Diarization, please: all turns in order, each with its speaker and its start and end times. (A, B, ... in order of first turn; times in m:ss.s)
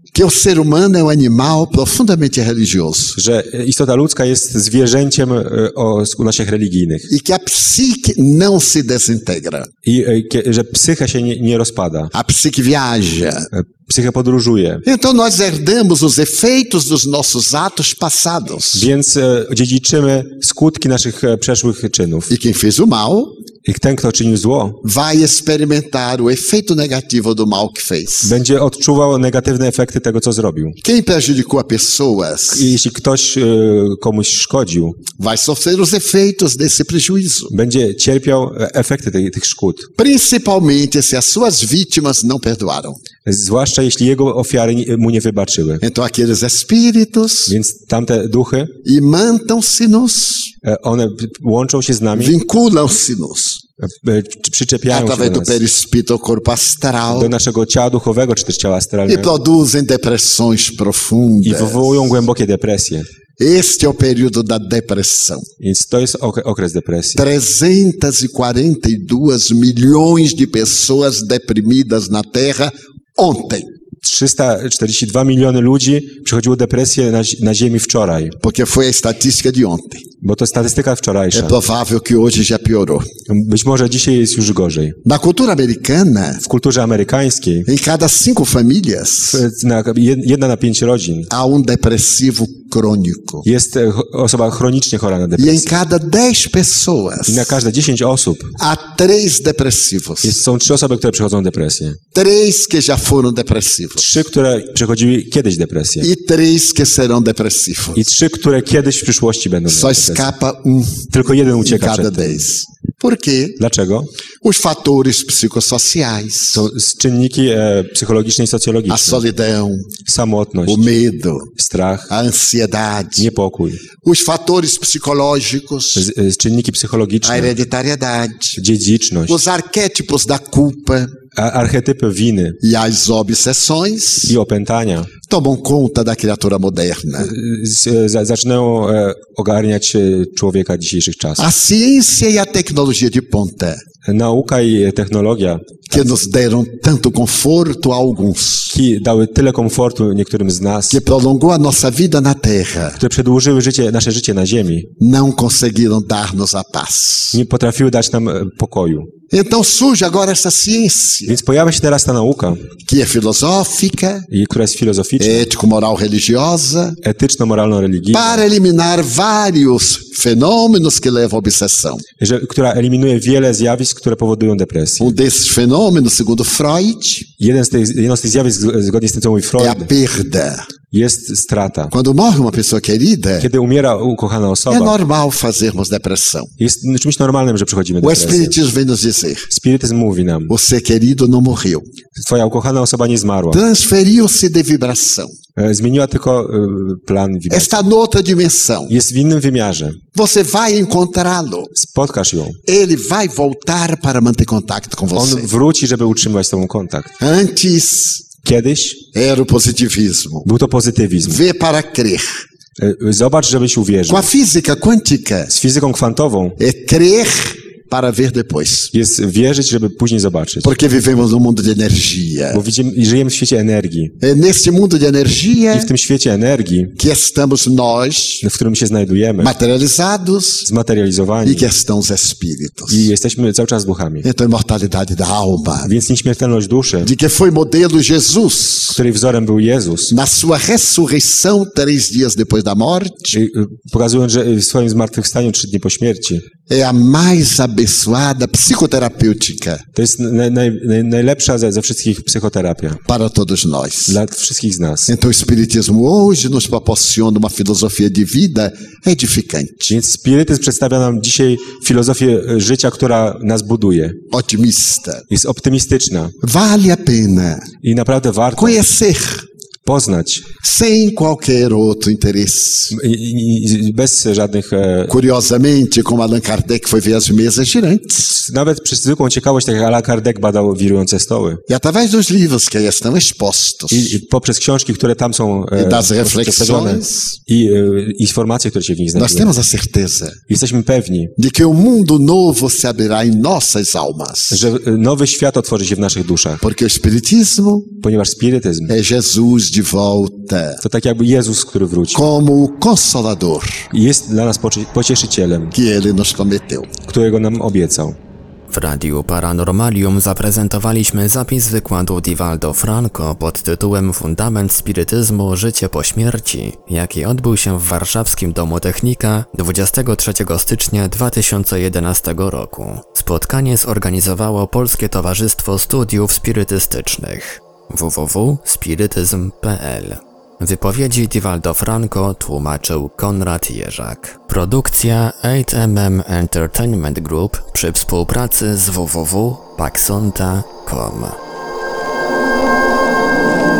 0:00.1-0:03.2 A
0:03.1-0:07.1 B
0:07.1-0:09.7 A
0:09.8-0:12.1 B
0:12.1-0:13.5 A
0:13.5-0:14.8 B
0:14.8-0:18.9 A
0:18.7-0:22.3 B
0:22.3-0:23.3 A
0:23.6-0:24.8 B
0:24.8-0:28.3 A
0:28.2-0:30.8 B
0:30.8-0:32.7 A
0:32.5-0:35.0 B
0:35.2-0:37.5 A
0:37.5-0:39.9 B
0:40.0-0:43.0 A
0:43.2-0:45.8 B
0:45.8-0:47.5 A
0:47.5-0:48.7 B
0:48.8-0:50.5 A
0:50.6-0:52.4 B
0:52.1-0:53.6 A
0:53.8-0:55.6 B
0:54.9-0:57.3 A
0:57.1-0:59.3 B
0:59.1-1:02.1 A
1:01.4-1:03.1 B
1:03.4-1:05.5 A
1:05.6-1:07.2 B
1:07.2-1:13.7 A
1:14.0-1:18.4 B
1:18.4-1:20.0 A
1:20.2-1:21.6 B
1:21.3-1:23.1 A
1:23.3-1:25.0 B
1:25.0-1:26.4 A
1:26.4-1:27.7 B
1:27.7-1:29.4 A
1:29.3-1:31.3 B
1:31.3-1:33.4 A
1:33.4-1:35.8 B
1:35.4-1:37.6 A
1:37.2-1:38.6 B
1:38.6-1:40.4 A
1:40.2-1:42.0 B
1:42.1-1:44.1 A
1:44.0-1:46.1 B
1:46.0-1:48.1 A
1:47.9-1:50.3 B
1:49.7-1:53.6 A
1:51.1-1:52.4 B
1:53.6-1:54.1 B
1:54.4-1:56.7 A
1:56.5-1:59.2 B
1:58.9-1:59.9 A
2:00.0-2:00.9 B
2:00.7-2:01.5 A
2:01.5-2:02.1 B
2:02.1-2:03.3 A
2:03.2-2:03.8 B
2:04.0-2:06.1 A
2:05.9-2:07.5 B
2:07.2-2:08.6 A
2:08.6-2:09.4 B
2:09.3-2:11.2 A
2:11.3-2:12.6 B
2:12.6-2:14.4 A
2:14.2-2:15.1 B
2:15.3-2:17.3 A
2:17.2-2:21.4 B
2:21.4-2:23.8 A
2:24.0-2:26.1 B
2:25.9-2:28.7 A
2:28.7-2:31.0 B
2:30.9-2:33.0 A
2:33.0-2:34.9 B
2:35.0-2:37.4 A
2:37.3-2:39.1 B
2:39.3-2:41.4 A
2:41.3-2:42.7 B
2:42.8-2:44.3 A
2:44.3-2:45.5 B
2:45.2-2:47.0 A
2:47.0-2:48.4 B
2:48.1-2:52.0 A
2:52.2-2:55.2 B
2:55.0-2:57.3 A
2:57.4-2:59.9 B
2:59.6-3:00.7 A
3:00.9-3:01.9 B
3:01.9-3:03.5 A
3:03.4-3:05.0 B
3:04.7-3:06.5 A
3:06.6-3:08.6 B
3:08.0-3:09.5 A
3:09.5-3:10.5 B
3:10.5-3:11.8 A
3:12.2-3:13.6 B
3:13.5-3:15.4 A
3:15.6-3:17.8 B
3:17.5-3:18.9 A
3:18.9-3:20.0 B
3:20.1-3:21.7 A
3:21.7-3:22.6 B
3:22.6-3:25.5 A
3:25.1-3:27.1 B
3:27.2-3:28.2 A
3:28.4-3:29.0 B
3:29.1-3:30.5 A
3:30.4-3:31.4 B
3:31.2-3:32.4 A
3:32.8-3:34.3 B
3:34.1-3:35.5 A
3:35.5-3:36.6 B
3:36.6-3:38.9 A
3:38.9-3:40.8 B
3:40.6-3:42.6 A
3:42.5-3:44.1 B
3:44.2-3:45.9 A
3:45.7-3:46.9 B
3:47.0-3:48.4 A
3:48.4-3:49.5 B
3:49.4-3:50.7 A
3:50.6-3:51.7 B
3:51.4-3:53.1 A
3:52.9-3:54.2 B
3:54.2-3:55.9 A
3:55.8-3:57.1 B
3:57.0-3:59.0 A
3:58.9-4:00.1 B
4:00.1-4:03.4 A
4:03.3-4:06.4 B
4:06.7-4:09.8 A
4:09.9-4:13.0 B
4:13.0-4:14.2 A
4:14.1-4:15.1 B
4:15.1-4:19.9 A
4:19.8-4:24.2 B
4:24.3-4:25.3 A
4:25.3-4:26.3 B
4:26.4-4:27.7 A
4:27.8-4:28.8 B
4:28.6-4:29.4 A
4:29.8-4:30.5 B
4:30.6-4:33.0 A
4:32.9-4:35.1 B
4:35.1-4:38.4 A
4:38.3-4:41.6 B
4:41.7-4:44.2 A
4:43.9-4:49.5 B
4:45.7-4:47.4 A
4:49.1-4:50.4 A
4:50.5-4:51.3 B
4:51.4-4:54.7 A
4:54.5-4:56.6 B
4:56.6-4:57.9 A
4:58.0-4:58.9 B
4:58.9-5:00.8 A
5:00.8-5:02.3 B
5:02.1-5:03.9 A
5:03.9-5:05.7 B
5:05.7-5:06.9 A
5:07.0-5:08.2 B
5:08.7-5:41.4 C